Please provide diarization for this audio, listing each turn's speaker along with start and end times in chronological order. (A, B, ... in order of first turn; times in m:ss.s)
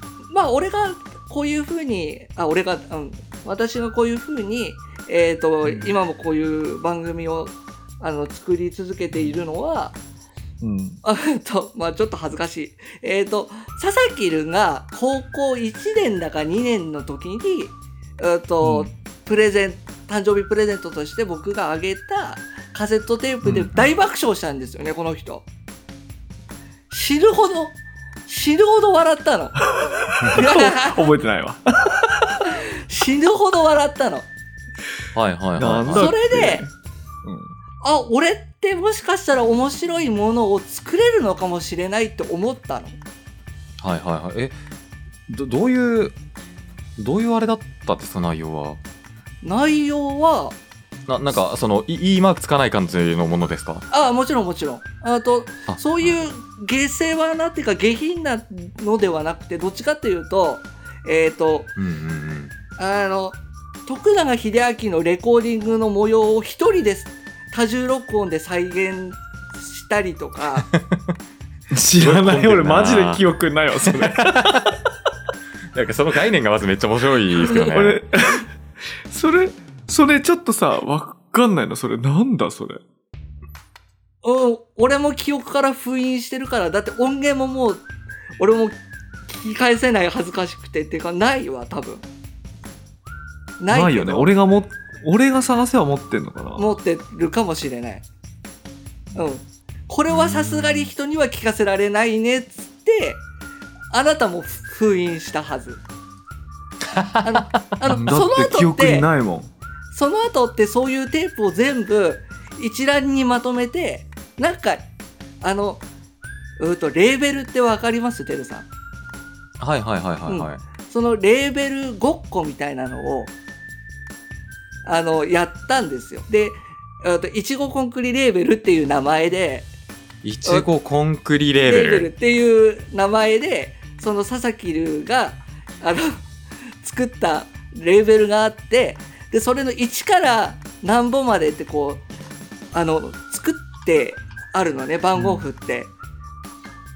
0:00.3-0:10.0 A
0:05.6-0:06.0 B
0:09.1-0:09.4 B
0:10.6-0:11.0 B
0:11.0-0:25.5 A
0:18.6-0:18.9 B
0:23.4-0:23.9 C
0:26.9-0:29.6 A
0:29.7-0:32.4 B
0:30.2-0:30.5 C
0:30.3-0:31.0 A
0:32.5-0:34.3 A
0:35.2-0:36.1 C
0:35.6-0:36.7 B
0:35.9-0:36.6 A
0:37.2-0:37.6 B
0:37.8-0:43.0 A
0:43.8-0:44.6 C
0:45.3-0:46.1 C
0:47.0-0:48.8 C
0:49.4-0:50.6 A
0:51.1-0:53.9 C
0:53.9-1:01.7 A
0:55.7-0:56.2 C
1:01.8-1:02.5 C
1:02.8-1:10.7 A
1:10.7-1:11.0 C
1:11.7-1:14.7 B
1:11.9-1:13.2 C
1:13.8-1:14.8 C
1:15.7-1:18.0 C
1:17.6-1:18.5 B
1:19.1-1:22.8 B
1:24.2-1:27.8 A
1:28.4-1:32.0 A
1:33.6-1:34.3 A
1:33.7-1:36.7 B
1:36.6-1:38.0 A
1:39.2-1:43.2 A
1:40.1-1:40.9 C
1:43.9-1:45.8 A
1:46.9-1:47.3 C
1:47.2-1:49.1 A
1:47.8-1:49.5 B
1:49.9-1:54.8 A
1:55.4-1:55.8 A
1:56.6-1:58.7 A
1:59.6-2:00.6 C
2:00.3-2:03.3 A
2:04.8-2:09.7 A
2:10.2-2:12.1 C
2:11.6-2:16.3 A
2:16.8-2:22.0 A
2:22.7-2:25.9 A
2:25.2-2:25.4 B